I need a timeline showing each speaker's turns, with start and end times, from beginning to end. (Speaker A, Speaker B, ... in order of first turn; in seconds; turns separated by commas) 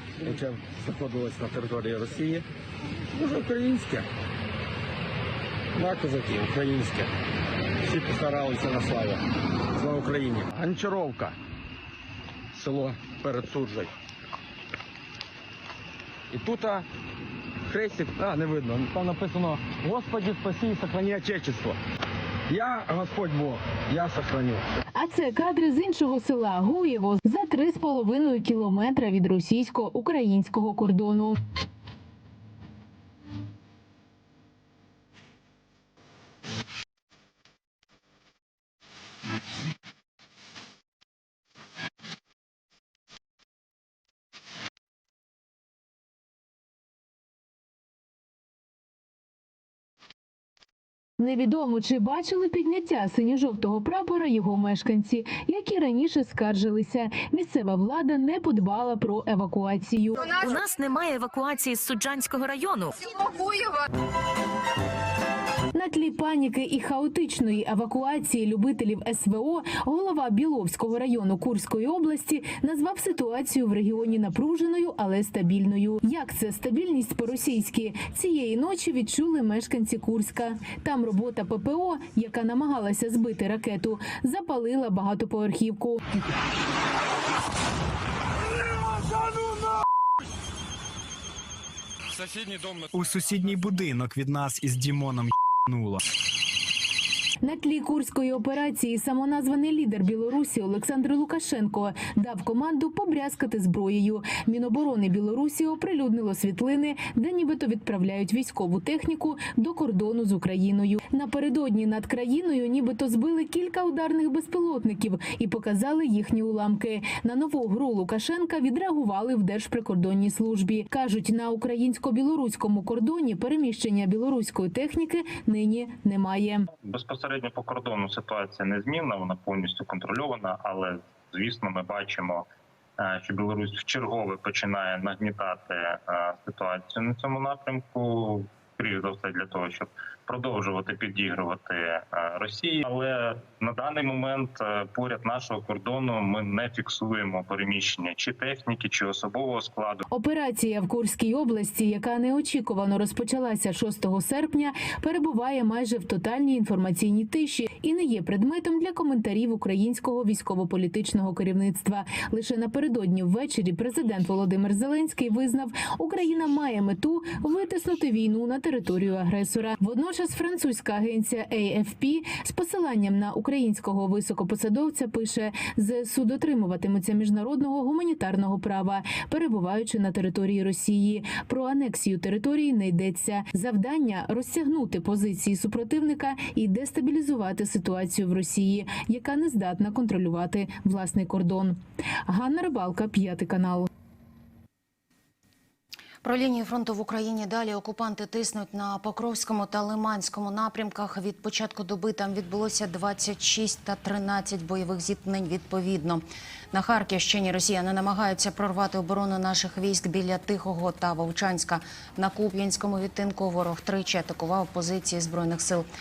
Speaker A: 0.2-2.4, Speaker A: 3.1-4.1, Speaker A: 5.8-7.1, Speaker A: 7.8-11.3, Speaker A: 12.5-13.9, Speaker A: 16.3-16.8, Speaker A: 17.7-21.8, Speaker A: 22.5-24.6, Speaker B: 24.9-31.4, Speaker B: 51.2-60.3, Speaker C: 60.3-63.0, Speaker B: 65.7-86.0, Speaker D: 92.4-96.0, Speaker B: 97.4-126.7, Speaker E: 126.8-132.4, Speaker E: 133.0-150.0, Speaker B: 150.1-193.9, Speaker F: 196.2-215.9